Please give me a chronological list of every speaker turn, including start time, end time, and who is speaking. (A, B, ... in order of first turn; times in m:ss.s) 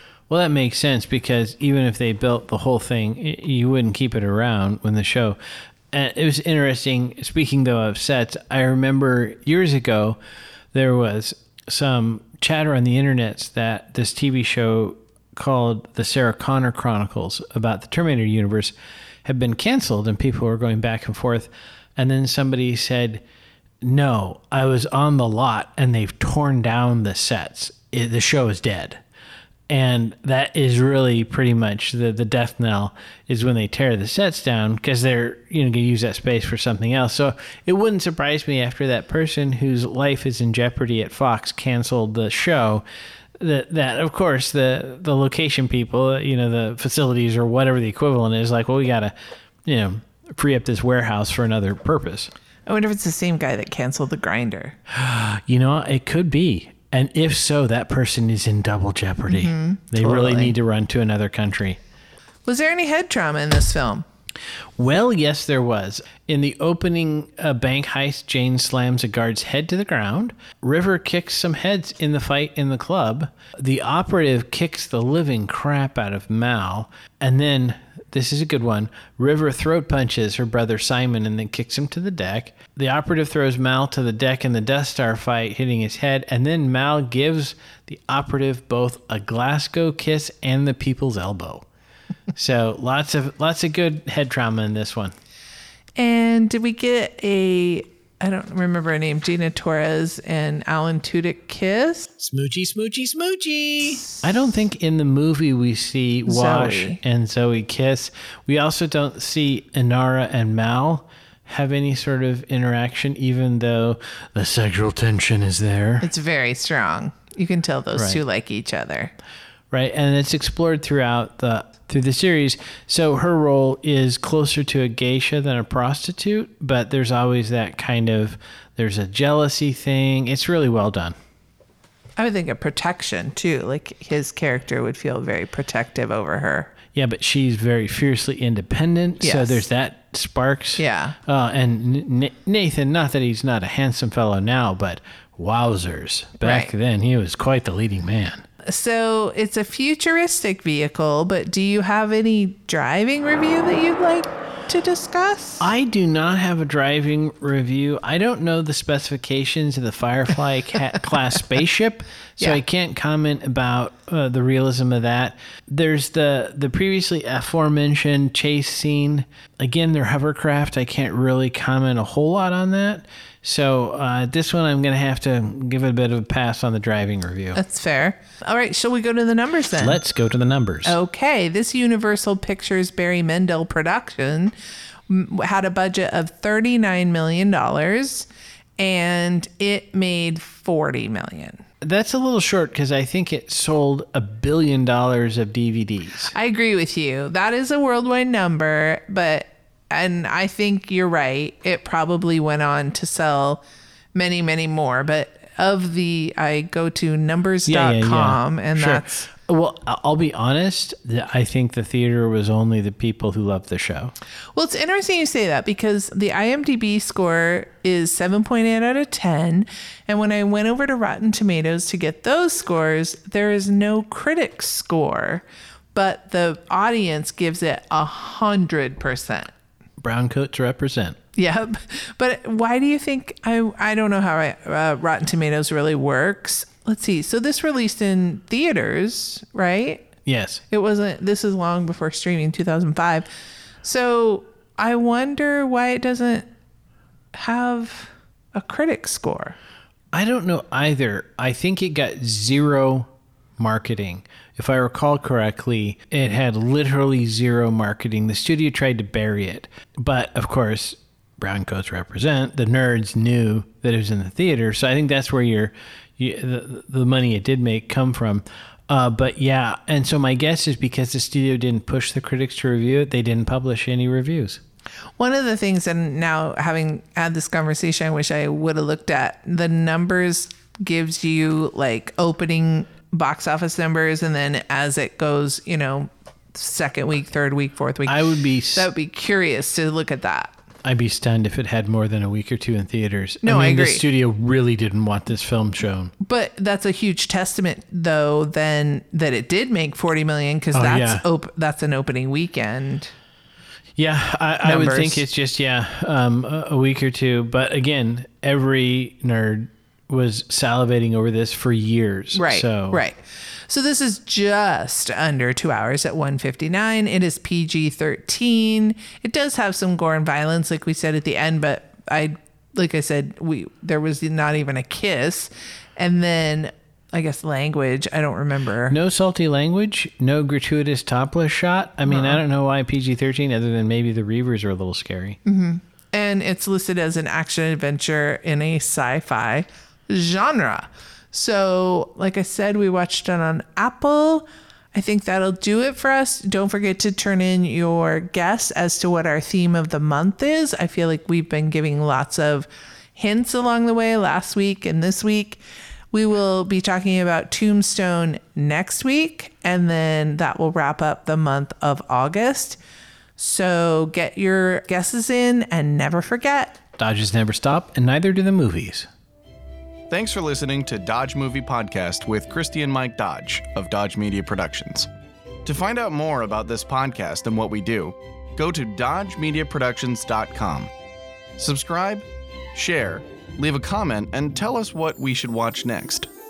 0:00.3-0:05.4 A
0:05.9-0:10.2 A
0:10.7-0:23.2 A
0:23.8-0:29.0 A
0:29.7-0:42.8 A
0:43.4-0:49.1 A
0:49.6-0:52.3 A
0:52.7-0:54.8 B
0:54.9-1:01.8 A
0:59.3-1:00.5 B
1:02.4-1:04.0 B
1:04.8-1:31.6 A
1:32.3-1:35.1 A
1:36.0-1:42.1 B
1:42.2-1:56.1 A
1:46.2-1:47.0 B
1:56.0-1:59.1 B
1:57.9-1:58.2 A
1:59.7-2:11.2 A
2:12.2-2:16.7 B
2:16.9-2:28.4 A
2:19.2-2:19.6 B
2:20.8-2:21.2 B
2:26.4-2:26.7 B
2:28.6-2:35.7 B
2:35.6-2:57.6 A
2:57.5-3:00.0 B
2:59.8-3:00.9 A
3:00.8-3:04.5 B
3:05.1-3:08.3 B
3:08.8-3:11.6 B
3:11.8-3:16.3 A
3:16.3-3:29.3 B
3:27.7-3:34.1 A
3:34.5-3:49.5 B
3:50.0-3:51.2 A
3:51.4-4:00.1 B
4:00.2-4:00.6 A
4:00.7-4:03.3 B
4:03.8-4:06.5 B
4:07.3-4:09.6 B
4:10.1-4:34.6 A
4:35.2-4:50.5 B
4:48.0-4:48.9 A
4:50.8-4:56.1 A
4:53.4-4:54.0 B
4:56.2-5:03.1 B
5:00.7-5:01.2 A
5:04.0-5:13.0 A
5:04.6-5:05.2 B
5:12.3-5:29.0 B
5:28.9-5:35.4 A
5:32.1-5:32.4 B
5:35.4-5:55.6 B
5:56.1-6:02.8 B
6:03.4-6:06.8 B
6:07.0-6:09.1 A
6:10.1-6:15.1 C
6:15.6-6:20.9 C
6:21.6-6:26.3 C